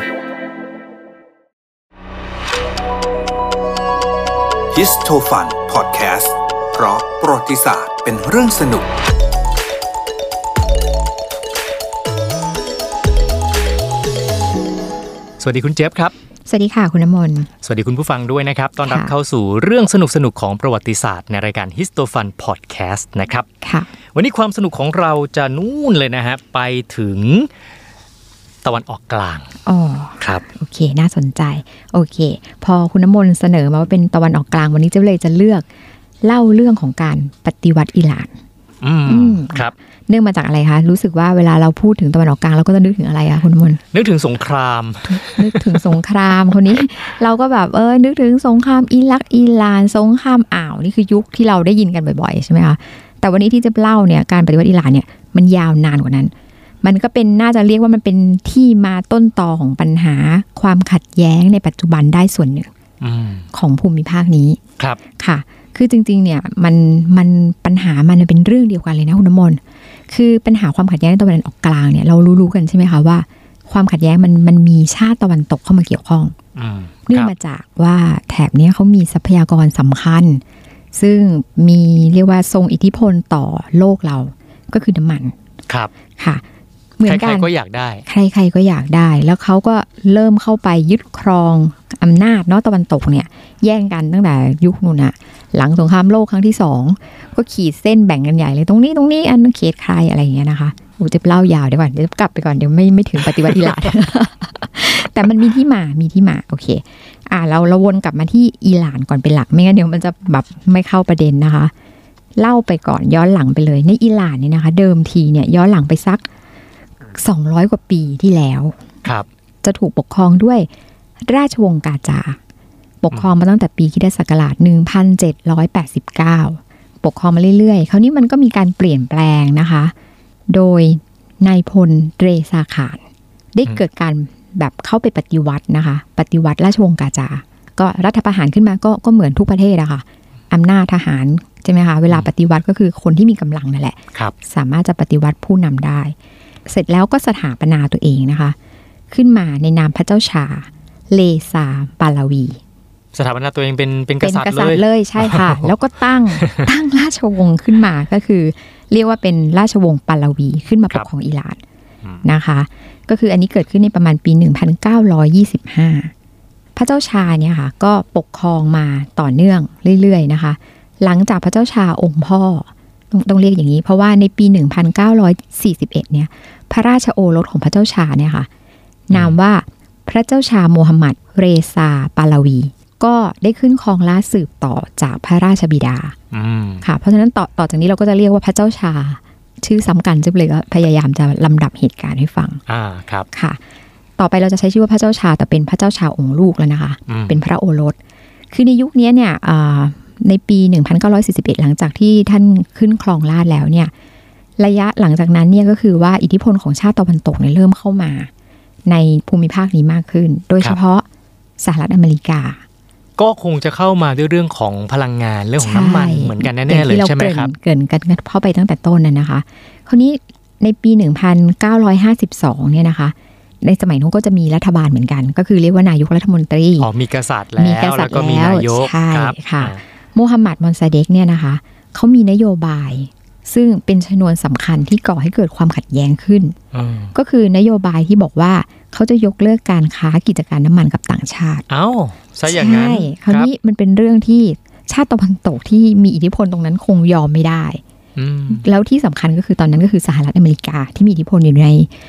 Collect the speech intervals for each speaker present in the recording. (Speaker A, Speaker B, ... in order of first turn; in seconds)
Speaker A: 4.7-8.9
Speaker B: 15.4-16.1, 17.6-23.4, 24.1-27.5, 28.6-29.5, 38.8-39.7, 43.9-45.8, 63.0-63.5, 76.5-77.3, 87.0-88.0, 153.1-155.7, 156.3-156.7, 179.1-179.4, 186.3-186.8, 192.7-193.3, 197.1-197.4, 213.2-217.5, 226.8-229.8, 236.7-237.1, 241.7-243.5, 248.2-248.6
Speaker C: 16.5-17.5, 18.8-19.1, 23.6-23.9, 29.6-35.6, 36.2-38.3, 39.0-43.8, 45.1-62.7, 63.5-64.6, 65.2-76.3, 77.1-80.4, 80.9-85.3, 86.2-86.4, 87.0-87.5, 88.0-111.7, 112.3-116.2, 117.1-118.8, 119.6-120.7, 121.2-122.4, 123.0-129.9, 130.5-133.0, 133.5-146.1, 146.7-148.6, 149.1-152.6, 154.2-161.6, 162.2-166.1, 166.7-178.5, 179.1-186.1, 186.8-192.6, 193.3-193.6, 194.2-198.0, 198.5-203.9, 204.6-208.3, 208.8-211.1, 211.6-212.6, 215.6-226.9, 227.6-236.6, 237.1-241.7, 242.5-247.8, 248.5-251.9